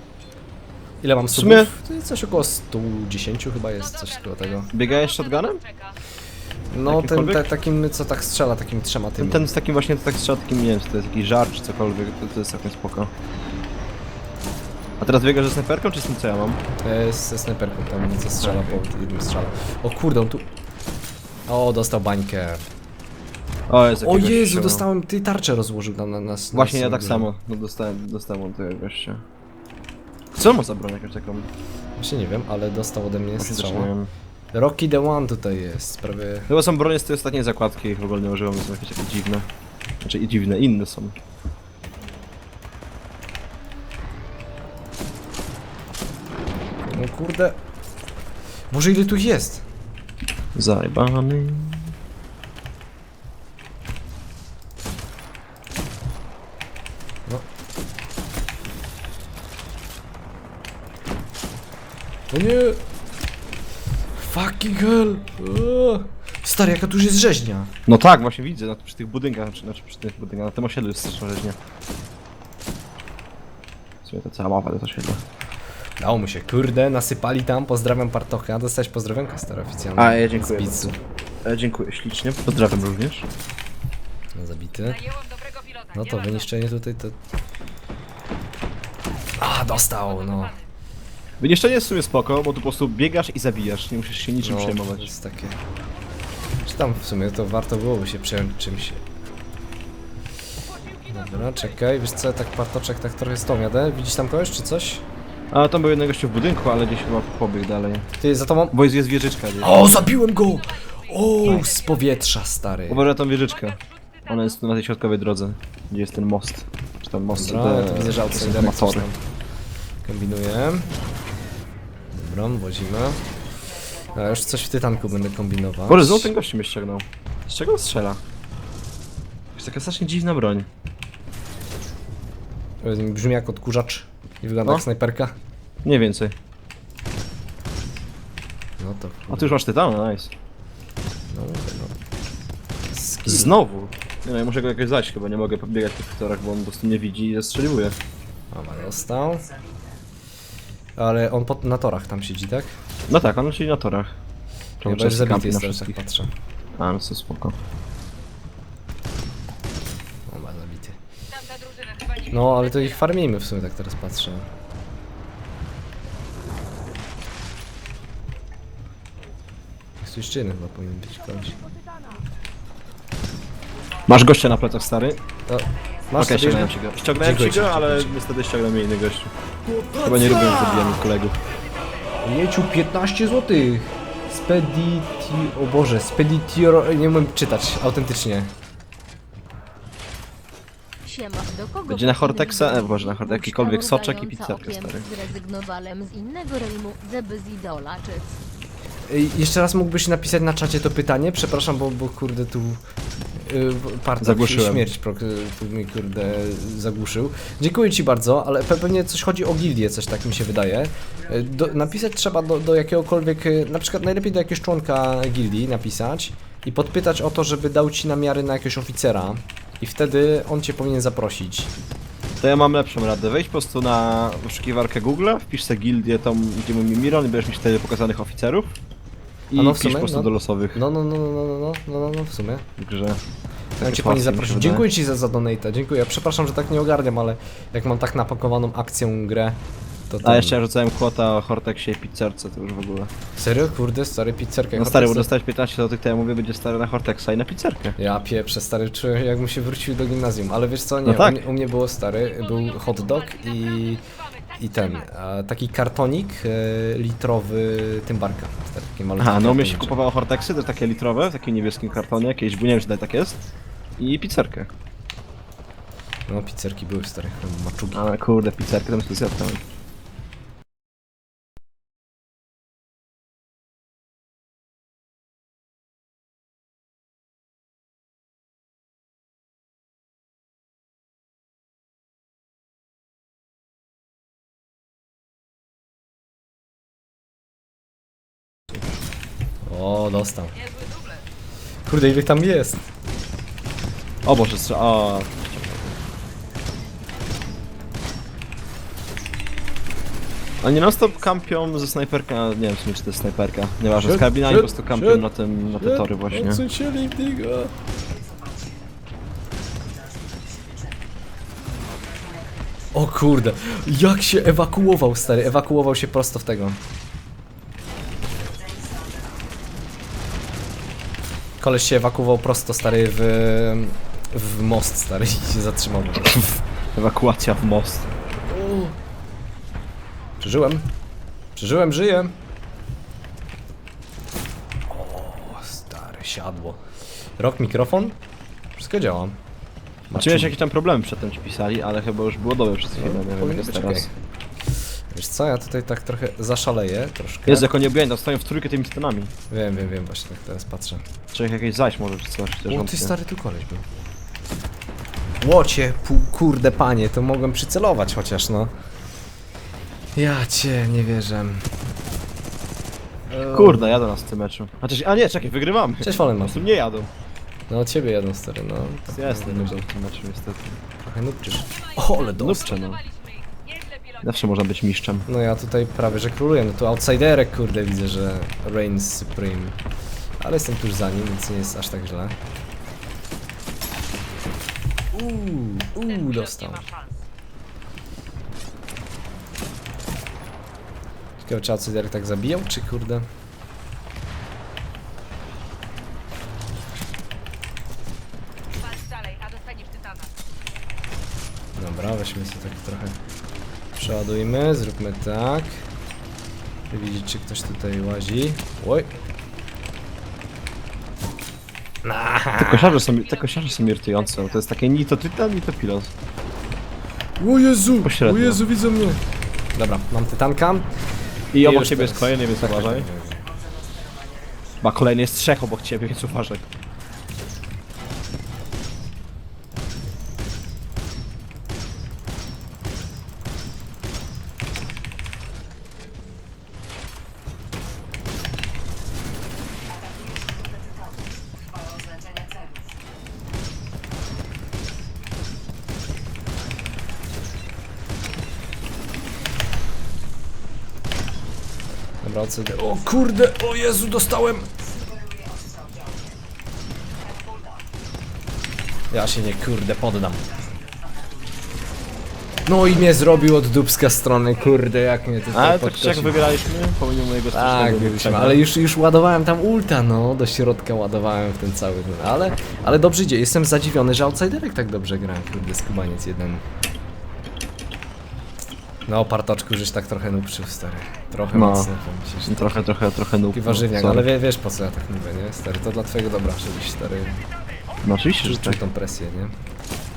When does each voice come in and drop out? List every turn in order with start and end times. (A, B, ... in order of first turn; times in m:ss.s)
0:01.0-0:04.7 A
0:01.3-0:01.7 B
0:04.7-0:05.6 B
0:06.7-0:09.5 A
0:06.9-0:07.5 B
0:09.2-0:13.1 B
0:15.0-0:16.6 B
0:16.8-0:20.5 A
0:18.4-0:18.8 B
0:21.5-0:22.6 A
0:23.7-0:24.9 B
0:24.0-0:27.3 A
0:26.5-0:29.2 B
0:30.3-0:31.5 B
0:32.0-0:33.9 A
0:33.4-0:34.1 B
0:34.5-0:36.5 A
0:36.5-0:39.5 B
0:40.0-0:41.2 B
0:46.8-0:47.6 A
0:48.7-0:49.6 A
0:50.6-0:51.9 B
1:02.3-1:02.8 A
1:04.2-1:07.7 A
1:07.9-1:11.6 B
1:14.0-1:15.2 B
1:16.0-1:21.0 A
1:20.0-1:23.3 B
1:24.4-1:25.1 A
1:25.9-1:27.2 A
1:29.4-1:30.6 A
1:31.4-1:35.1 B
1:34.4-1:35.6 A
1:36.6-1:39.0 A
1:41.0-1:45.0 A
1:45.5-1:48.1 B
1:48.2-1:48.8 A
1:48.7-1:50.1 B
1:49.6-1:53.1 A
1:51.4-1:51.7 B
1:52.9-1:59.1 B
1:57.3-1:59.2 A
2:00.0-2:00.9 A
2:02.1-2:03.2 A
2:04.0-2:06.3 A
2:05.9-2:08.2 B
2:09.6-2:10.7 B
2:12.8-2:15.3 A
2:15.8-2:16.4 B
2:18.8-2:19.5 A
2:19.3-2:20.3 B
2:21.3-2:22.0 A
2:22.9-2:23.6 A
2:23.3-2:28.0 B
2:28.5-2:29.5 A
2:31.0-2:32.8 A
2:33.1-2:34.1 B
2:34.8-2:36.0 B
2:34.8-2:36.3 A
2:36.8-2:37.6 B
2:40.3-2:41.0 A
2:41.8-2:42.2 C
2:42.3-2:44.5 A
2:50.0-2:51.6 A
2:54.1-2:55.2 B
2:55.5-2:58.2 A
2:56.2-2:59.3 B
2:59.8-3:00.9 A
3:00.0-3:01.4 B
3:02.2-3:08.5 A
3:11.0-3:18.4 D
3:11.9-3:15.1 B
3:19.1-3:22.8 A
3:23.4-3:41.7 A
3:24.2-3:24.9 B
3:42.4-3:48.8 B
3:49.5-3:50.8 B
3:49.6-3:52.6 A
3:52.8-3:53.2 B
3:53.8-3:59.6 A
3:53.8-3:54.9 B
4:00.1-4:00.6 A
4:00.2-4:03.1 B
4:03.4-4:05.3 A
4:04.8-4:08.0 B
4:08.0-4:14.0 A
4:11.1-4:11.4 B
4:14.6-4:20.0 A
4:19.2-4:23.4 B
4:24.0-4:24.7 B
4:26.3-4:28.1 A
4:27.9-4:29.6 B
4:49.6-4:50.6 A
4:51.8-4:52.9 A
4:54.2-4:56.0 B
5:00.6-5:06.6 B
5:04.0-5:07.7 A
5:12.9-5:16.8 A
5:21.6-5:26.6 A
5:26.9-5:28.1 B
5:28.3-5:29.0 A
5:30.4-5:30.9 A
5:31.6-5:32.3 A
5:34.9-5:36.8 A
5:37.4-5:38.2 A
5:38.8-5:39.4 A
5:40.1-5:40.6 A
5:40.2-5:44.0 B
5:43.0-5:44.1 A
5:45.1-5:47.7 A
5:47.5-5:49.3 B
5:49.5-5:51.0 A
5:51.3-5:53.1 B
5:52.7-5:53.9 A
5:55.4-5:58.7 A
6:00.2-6:01.7 A
6:03.3-6:04.0 A
6:03.5-6:07.1 B
6:06.0-6:06.6 A
6:07.7-6:09.9 A
6:09.1-6:10.8 B
6:11.0-6:12.8 A
6:12.4-6:13.0 B
6:13.8-6:14.1 C
6:14.2-6:15.3 B
6:15.3-6:19.8 A
6:20.4-6:22.4 A
6:25.1-6:26.9 A
6:31.4-6:33.2 A
6:39.0-6:40.2 C
6:41.8-6:43.2 A
6:43.9-6:45.8 A
6:46.9-6:49.1 A
6:52.0-6:53.0 A
6:52.6-6:56.1 B
6:57.4-6:59.2 A
6:58.0-6:58.6 B
6:59.8-7:00.9 A
7:01.5-7:03.1 B
7:01.6-7:03.5 A
7:04.8-7:06.7 B
7:32.2-7:34.7 A
7:39.1-7:40.4 A
7:42.7-7:46.4 A
7:45.5-7:48.6 B
7:47.5-7:56.6 A
7:59.1-8:02.9 A
8:01.5-8:01.9 B
8:02.5-8:04.3 B
8:03.5-8:07.4 A
8:08.0-8:08.8 B
8:08.4-8:09.5 A